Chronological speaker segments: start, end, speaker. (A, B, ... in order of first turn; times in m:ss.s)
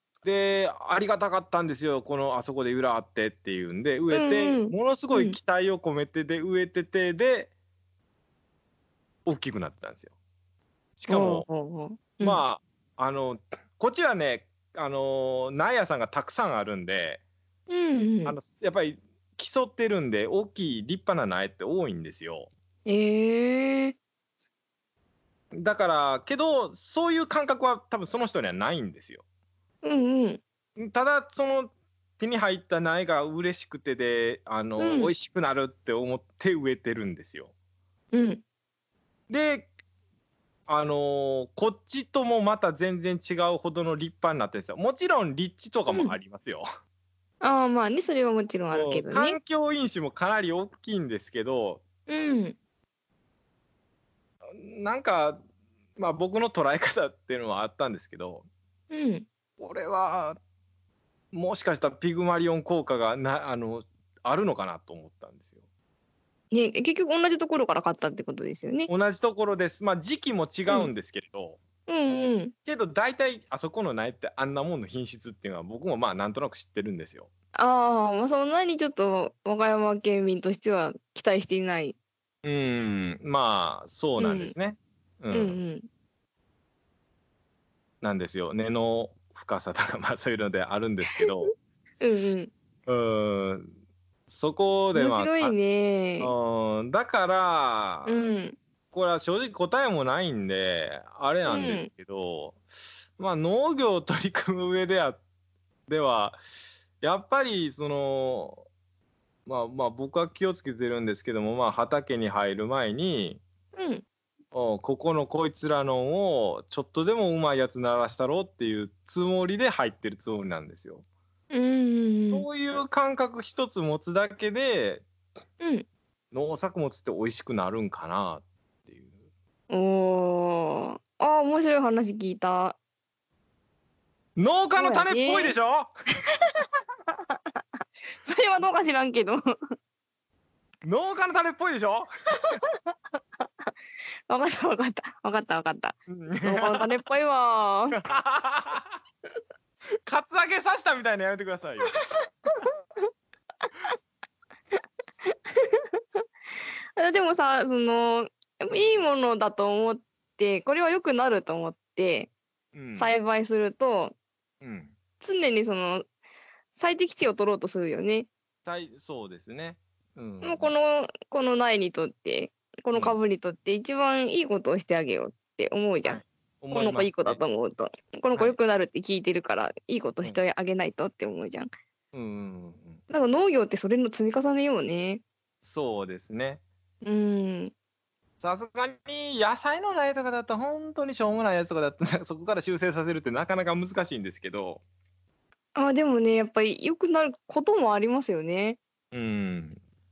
0:00.2-0:07.5 A
0:04.1-0:05.4 B
0:09.2-0:10.1 A
0:11.0-0:11.5 A
0:11.1-0:12.4 B
0:12.2-0:17.2 A
0:17.7-0:18.4 B
0:18.2-0:22.5 A
0:22.8-0:24.0 B
0:25.5-0:29.2 A
0:29.8-0:30.4 B
0:30.8-0:37.5 A
0:34.8-0:35.1 B
0:38.1-0:38.4 B
0:39.3-0:39.7 A
0:40.7-0:46.6 A
0:45.9-0:46.2 B
0:47.4-0:49.4 B
0:48.7-0:51.8 A
0:52.1-0:52.6 B
0:54.4-0:55.4 A
0:56.0-0:58.4 A
0:58.9-0:59.3 B
0:59.6-1:00.4 A
1:01.3-1:05.5 A
1:06.5-1:08.9 B
1:08.9-1:11.6 A
1:11.9-1:12.5 B
1:12.6-1:17.3 A
1:17.6-1:22.0 B
1:22.4-1:25.6 A
1:24.2-1:24.5 B
1:25.3-1:25.8 B
1:28.0-1:31.5 A
1:31.1-1:32.5 B
1:32.9-1:33.6 A
1:34.3-1:35.5 A
1:34.9-1:36.3 B
1:36.2-1:38.2 A
1:38.0-1:38.6 B
1:38.9-1:42.6 A
1:41.4-1:41.9 B
1:43.2-1:45.2 A
1:45.9-1:46.4 A
1:47.0-1:48.6 A
1:49.4-1:53.4 A
1:53.7-1:54.0 B
1:54.5-2:01.0 A
2:01.5-2:02.5 B
2:02.3-2:05.0 A
2:05.6-2:05.9 B
2:06.3-2:09.1 A
2:09.7-2:12.8 B
2:14.4-2:15.9 A
2:14.8-2:15.6 B
2:16.6-2:19.4 B
2:20.8-2:22.6 A
2:22.7-2:23.7 B
2:24.3-2:28.0 B
2:26.1-2:26.9 A
2:27.9-2:29.0 A
2:30.0-2:32.0 A
2:32.5-2:33.1 B
2:35.2-2:36.2 B
2:37.0-2:42.3 B
2:38.7-2:39.0 A
2:42.7-2:43.1 A
2:42.9-2:44.2 B
2:44.6-2:44.9 A
2:45.2-2:46.1 B
2:46.8-2:48.3 B
2:48.6-2:50.7 A
2:50.4-2:56.2 B
2:52.9-2:53.2 A
2:56.0-2:57.4 A
2:56.7-3:01.7 B
3:02.1-3:03.0 A
3:03.1-3:05.2 B
3:05.6-3:06.6 A
3:07.0-3:07.7 B
3:08.4-3:14.8 A
3:15.7-3:18.8 B
3:19.1-3:19.8 A